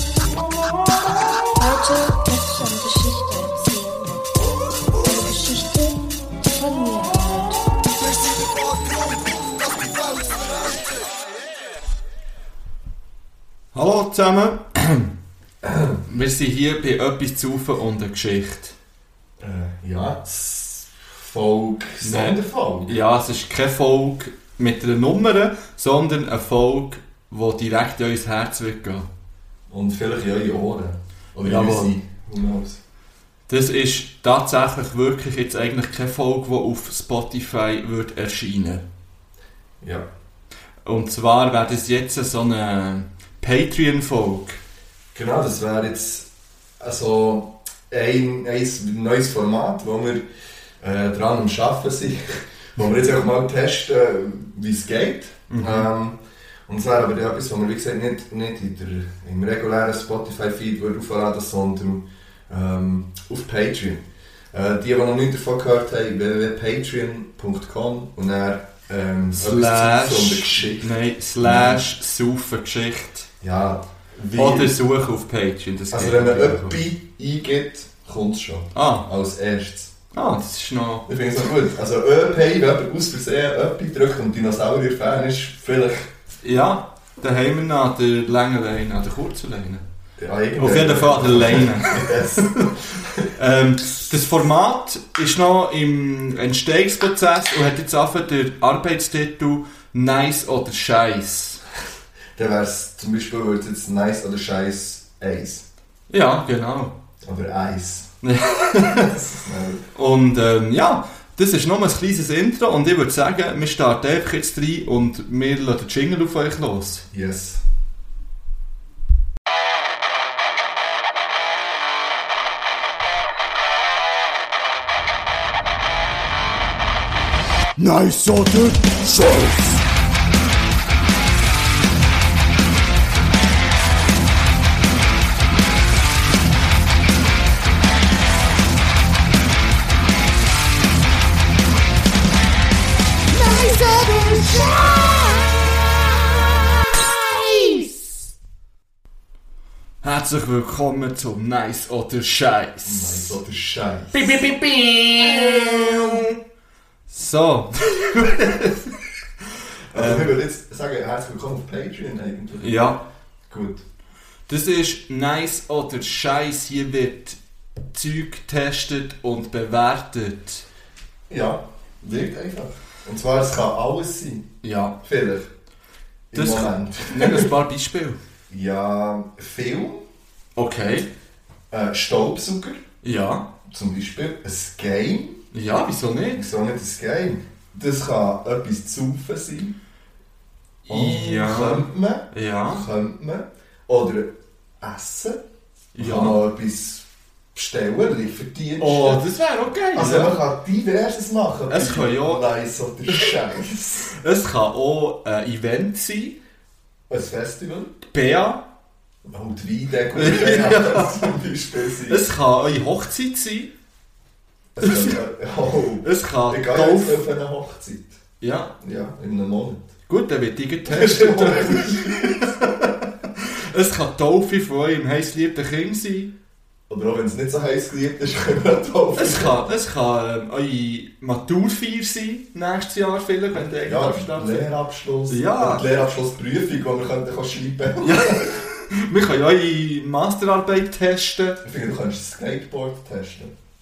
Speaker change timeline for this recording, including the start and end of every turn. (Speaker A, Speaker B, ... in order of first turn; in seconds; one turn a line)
Speaker A: 1.5-4.3
Speaker A: 4.9-7.7
Speaker B: 13.7-15.1
Speaker C: 15.6-16.0
Speaker B: 16.1-18.8
Speaker C: 19.4-22.9
Speaker B: 22.0-29.1
Speaker C: 29.7-32.8
Speaker B: 31.4-32.0
Speaker B: 33.5-38.8
Speaker C: 39.8-40.1
Speaker B: 40.9-44.6
Speaker C: 45.1-46.3
Speaker C: 46.8-50.2
Speaker C: 50.8-71.8
Speaker B: 55.5-55.9
Speaker B: 69.3-73.3
Speaker C: 73.4-74.7
Speaker B: 74.3-76.8
Speaker C: 75.9-79.9
Speaker B: 78.7-79.1
Speaker B: 80.1-81.1
Speaker C: 81.1-86.1
Speaker B: 86.4-89.8
Speaker C: 90.2-93.3
Speaker B: 90.6-101.6
Speaker C: 102.4-105.7
Speaker B: 106.1-106.9
Speaker C: 107.2-108.1
Speaker B: 108.2-109.2
Speaker C: 109.0-109.9
Speaker B: 110.0-117.1
Speaker C: 117.1-117.6
Speaker D: 127.8-129.8
Speaker B: 143.3-145.7
Speaker B: 146.9-148.1
Speaker B: 150.0-153.4
Speaker C: 152.8-154.4
Speaker B: 154.1-156.4
Speaker B: 157.1-158.9
Speaker B: 159.9-160.3
Speaker C: 159.9-163.0
Speaker B: 162.6-163.0
Speaker C: 163.5-163.8
Speaker B: 164.5-167.4
Speaker B: 167.9-170.7
Speaker C: 171.3-175.5
Speaker B: 174.6-175.0
Speaker C: 176.3-177.5
Speaker B: 176.3-178.2
Speaker C: 178.5-180.1
Speaker B: 180.6-181.1
Speaker C: 181.7-182.8
Speaker B: 183.0-183.5
Speaker C: 183.7-185.4
Speaker B: 185.5-186.4
Speaker C: 186.3-189.8
Speaker B: 190.8-192.9
Speaker C: 190.9-195.4
Speaker B: 195.9-196.4
Speaker C: 196.0-199.2
Speaker B: 198.8-200.4
Speaker C: 199.9-204.1
Speaker B: 201.7-202.4
Speaker B: 204.1-206.4
Speaker C: 207.1-207.9
Speaker B: 208.1-208.7
Speaker C: 209.2-212.3
Speaker B: 210.2-211.2
Speaker B: 212.1-213.7
Speaker C: 214.8-218.2
Speaker B: 214.8-215.2
Speaker B: 216.0-217.2
Speaker B: 218.4-218.8
Speaker C: 218.8-219.9
Speaker B: 220.1-226.3
Speaker C: 220.8-222.3
Speaker C: 226.9-229.6
Speaker B: 229.2-234.7
Speaker C: 233.7-238.5
Speaker B: 235.3-236.0
Speaker B: 238.0-241.6
Speaker C: 241.6-243.5